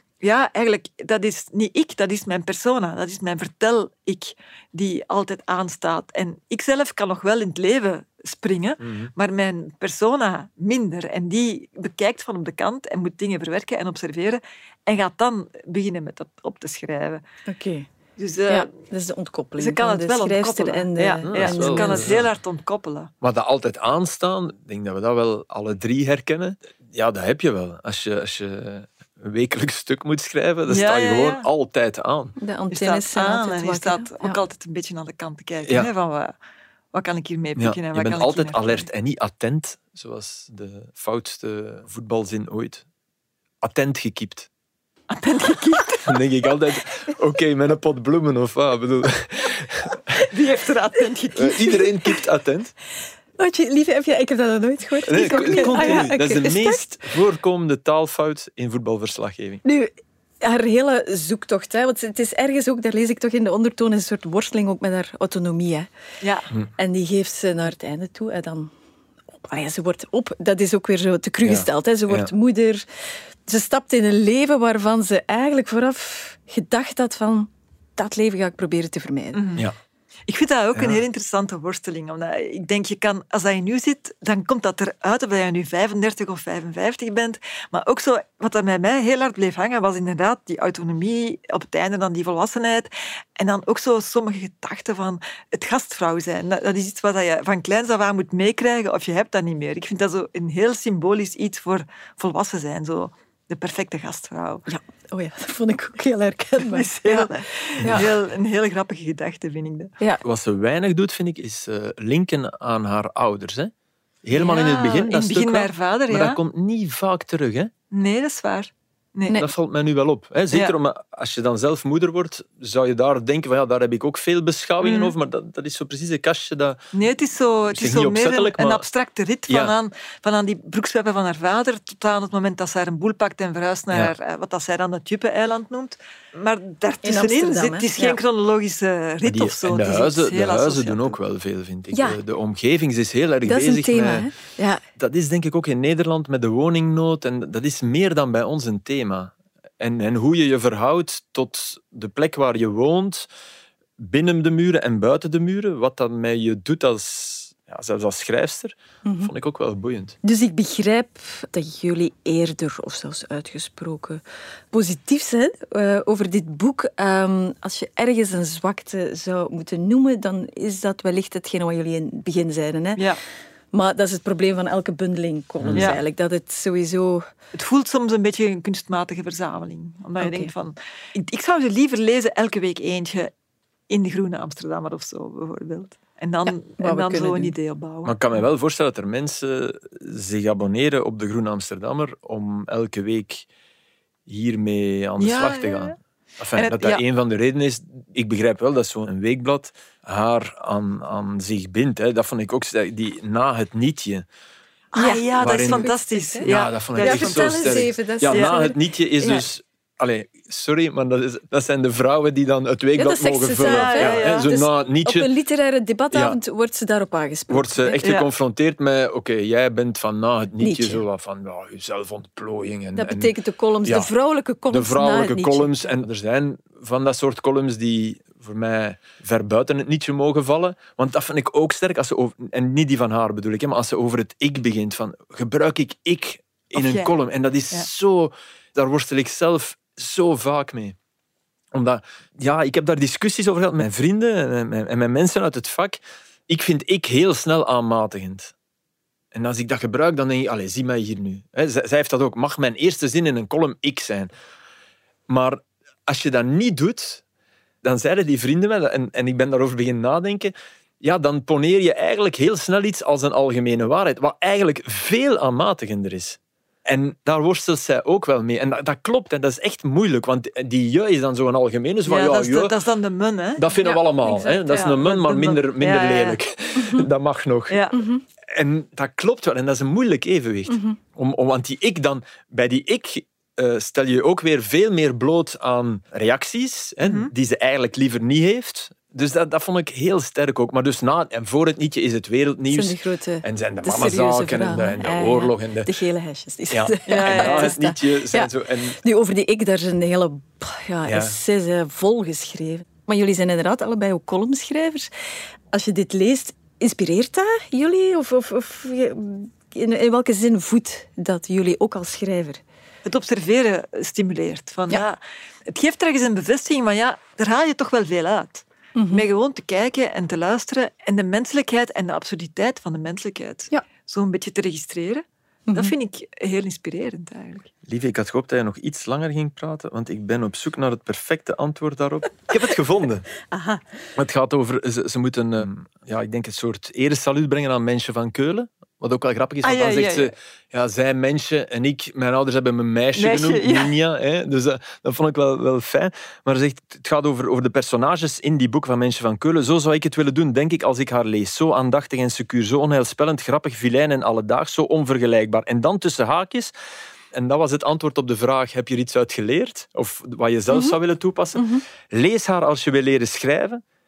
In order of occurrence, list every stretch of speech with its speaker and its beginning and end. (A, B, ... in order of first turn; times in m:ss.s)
0:00.2-0:17.2 A
0:08.8-0:09.1 B
0:17.5-0:17.9 C
0:18.2-0:18.7 A
0:18.5-0:22.2 C
0:19.6-0:23.1 A
0:21.2-0:22.3 B
0:23.2-0:32.4 B
0:30.7-0:31.4 A
0:32.4-0:34.4 C
0:32.7-0:36.3 A
0:35.6-0:35.9 B
0:36.9-0:38.9 A
0:37.6-0:42.8 B
0:43.6-0:44.5 B
0:45.1-0:46.2 A
0:46.0-0:50.2 B
0:50.3-0:51.9 A
0:51.4-0:52.7 B
0:53.4-0:56.8 C
0:55.0-0:59.6 B
0:55.3-0:56.1 A
0:59.6-1:05.9 C
1:06.2-1:06.5 A
1:06.8-1:08.7 C
1:09.4-1:12.8 C
1:11.4-1:12.3 B
1:13.5-1:19.4 C
1:19.3-1:19.7 A
1:20.3-1:44.6 A
1:20.7-1:21.0 B
1:44.7-1:47.3 C
1:46.6-1:49.9 A
1:50.2-1:53.7 B
1:54.2-1:57.7 B
1:54.3-1:56.4 A
1:57.9-1:59.4 A
1:59.3-2:06.8 B
2:04.8-2:05.1 A
2:06.9-2:21.2 A
2:07.7-2:08.8 B
2:09.5-2:09.7 B
2:17.0-2:18.2 C
2:19.2-2:24.3 B
2:21.9-2:22.2 C
2:23.4-2:24.8 C
2:25.0-2:33.3 B
2:34.0-2:40.1 B
2:39.0-2:39.3 C
2:40.2-2:53.0 C
2:53.7-2:57.3 C
2:55.6-2:55.9 B
2:55.8-2:56.0 A
2:57.5-3:03.3 A
3:00.2-3:00.5 C
3:03.9-3:08.2 A
3:06.5-3:07.5 C
3:08.0-3:13.5 B
3:14.3-3:24.2 B
3:15.2-3:16.0 A
3:16.6-3:17.0 A
3:24.9-3:29.4 C
3:24.9-3:28.5 A
3:25.4-3:25.9 B
3:26.4-3:35.3 B
3:33.0-3:38.3 C
3:33.6-3:34.5 A
3:36.1-3:36.4 B
3:37.5-3:43.3 B
3:40.6-3:41.0 C
3:42.9-3:46.0 C
3:43.8-3:44.1 B
3:44.7-4:01.0 B
3:56.7-3:57.1 A
4:01.7-4:08.5 B
4:09.3-4:14.3 B
4:15.3-4:17.2 B
4:17.8-4:32.7 B
4:32.1-4:33.6 A
4:33.6-4:37.8 B
4:33.8-4:34.6 C
4:34.5-4:36.4 A
4:36.8-4:37.0 C
4:37.7-4:38.0 A
4:37.9-4:38.2 C
4:38.4-4:55.9 B
4:40.7-4:41.0 C
4:47.0-4:47.3 A
4:52.7-5:05.1 C
4:56.7-4:59.0 B
4:57.1-4:57.7 A
5:01.0-5:01.4 B
5:05.7-5:12.6 C
5:13.0-5:27.7 A
5:19.0-5:19.2 C
5:25.7-5:25.9 C
5:27.8-5:33.3 B
5:33.5-5:33.8 C
5:34.2-5:56.7 B
5:39.6-5:40.3 A
5:43.2-5:43.9 A
5:57.3-6:03.8 B
6:00.7-6:01.0 C
6:01.5-6:01.8 C